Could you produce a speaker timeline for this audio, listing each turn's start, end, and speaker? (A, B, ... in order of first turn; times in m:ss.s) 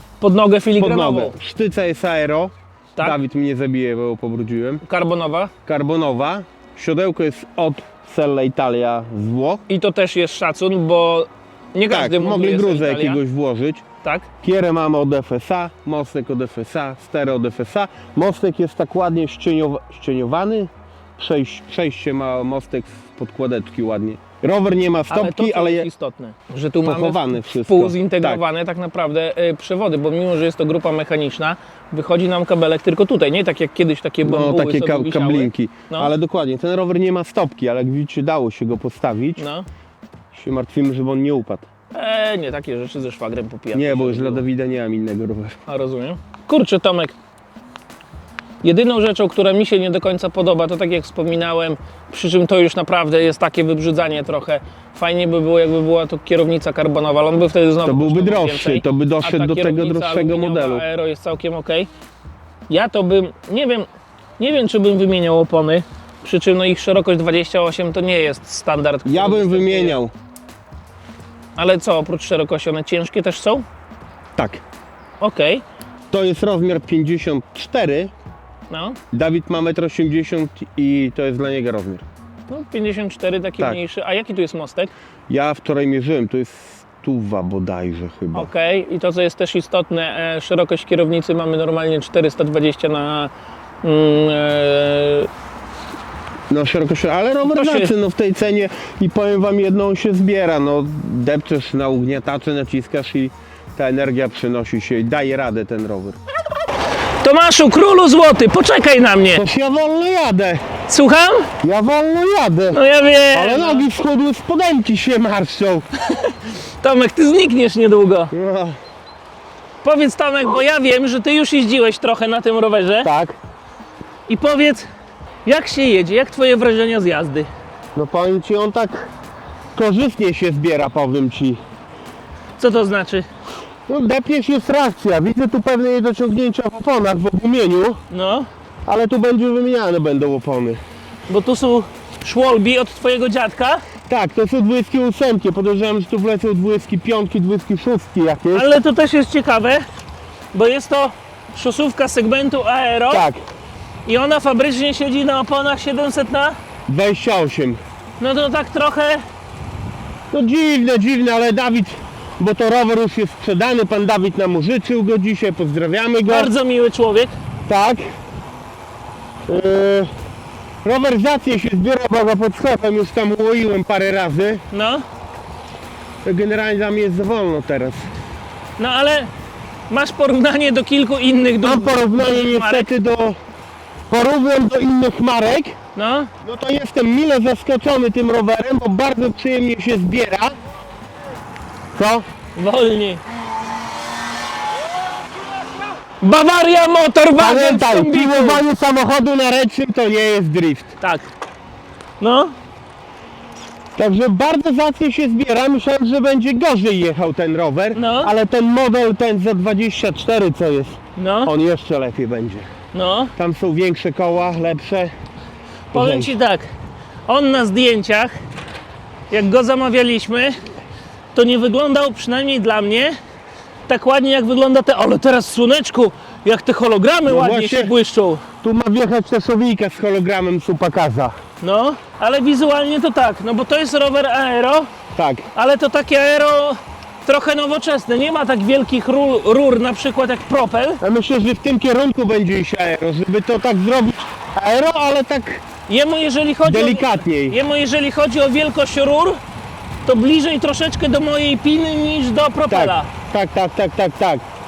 0:00.2-0:01.3 A
0:00.8-0:04.8 B
0:04.8-0:05.5 A
0:05.6-0:09.6 B
0:09.7-0:13.2 A
0:11.9-0:13.8 B
0:14.4-0:25.9 B
0:25.1-0:36.1 A
0:26.8-0:28.4 B
0:34.2-0:39.4 B
0:39.4-0:39.7 A
0:40.3-0:41.7 B
0:41.9-0:44.4 A
0:43.7-0:45.6 B
0:45.7-0:47.1 A
0:48.6-1:01.9 A
0:57.8-1:00.8 B
1:02.7-1:03.9 A
1:04.4-1:10.0 A
1:09.0-1:10.1 B
1:11.6-1:13.6 A
1:14.4-1:14.6 B
1:15.2-1:15.6 A
1:16.1-1:18.1 B
1:18.7-1:19.0 A
1:19.1-1:22.0 B
1:22.5-1:24.9 A
1:25.3-1:28.5 B
1:28.3-1:33.3 A
1:33.8-1:35.3 A
1:36.5-1:46.2 B
1:37.4-1:37.9 A
1:47.2-1:49.4 A
1:49.3-1:50.6 B
1:50.9-1:51.5 A
1:51.6-1:55.8 B
1:52.7-1:53.9 A
1:56.0-1:58.3 A
1:58.3-1:58.8 B
1:59.8-2:03.1 A
2:03.0-2:03.4 B
2:04.3-2:04.9 A
2:05.4-2:07.5 A
2:07.9-2:09.1 B
2:09.7-2:11.6 B
2:12.6-2:13.3 A
2:13.9-2:18.0 B
2:18.1-2:18.5 A
2:18.8-2:20.8 B
2:21.3-2:23.8 A
2:24.1-2:28.7 B
2:28.5-2:29.8 A
2:30.5-2:33.2 A
2:33.1-2:33.4 B
2:34.0-2:36.6 A
2:36.9-2:37.8 B
2:38.2-2:39.2 A
2:40.3-2:46.5 B
2:46.3-2:47.3 A
2:47.7-2:48.0 B
2:49.5-2:50.1 B
2:50.8-2:54.6 B
2:54.7-2:55.0 A
2:56.2-2:58.1 B
2:58.8-2:59.3 A
2:59.9-3:02.9 A
3:01.6-3:03.4 B
3:04.1-3:05.8 B
3:05.9-3:06.3 A
3:06.4-3:10.5 B
3:11.9-3:12.2 B
3:12.6-3:13.2 A
3:16.2-3:18.6 A
3:17.4-3:20.9 B
3:21.0-3:21.3 A
3:22.2-3:22.6 A
3:24.0-3:32.7 B
3:27.9-3:28.3 A
3:31.2-3:31.5 A
3:32.9-3:33.3 A
3:33.4-3:35.1 B
3:35.9-3:36.7 A
3:35.9-3:36.3 B
3:37.3-3:38.4 A
3:39.3-3:40.6 A
3:41.3-3:43.2 A
3:43.9-3:48.4 A
3:47.3-3:47.9 B
3:48.6-3:51.4 B
3:51.6-3:54.9 A
3:55.1-3:55.5 B
3:55.5-4:01.0 A
4:01.0-4:05.6 B
4:05.9-4:09.4 A
4:06.6-4:07.6 B
4:10.0-4:13.1 A
4:12.7-4:14.4 B